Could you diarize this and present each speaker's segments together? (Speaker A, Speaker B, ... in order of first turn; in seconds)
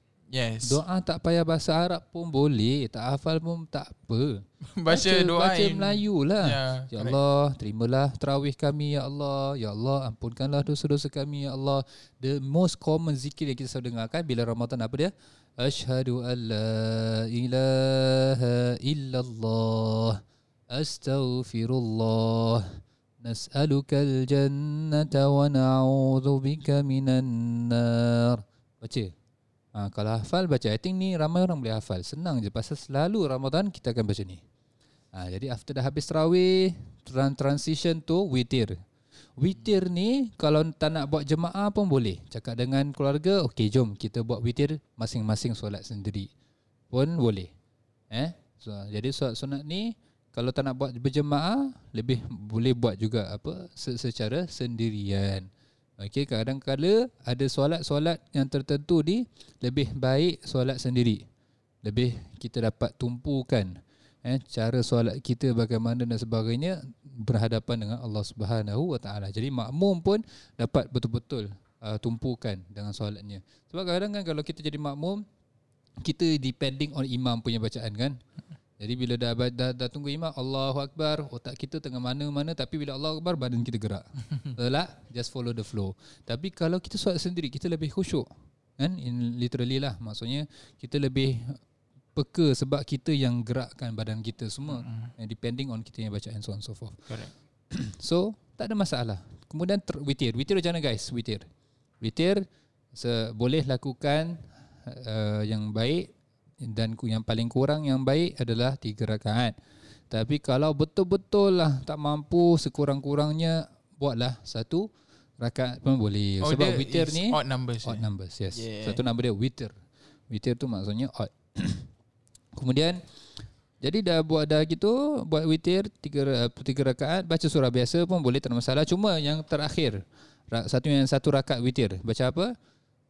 Speaker A: 0.3-0.8, 4.7-7.2, 94.7-95.1, 116.4-119.0
Speaker B: 0.6-29.1, 29.7-34.4, 35.1-38.8, 39.4-46.3, 46.9-47.5, 48.1-55.5, 56.0-61.2, 61.8-75.2, 76.0-78.2, 78.8-91.6, 92.1-97.1, 97.7-101.5, 102.0-106.1, 106.6-109.5, 110.1-119.7, 120.3-121.9, 122.5-123.0, 123.8-132.5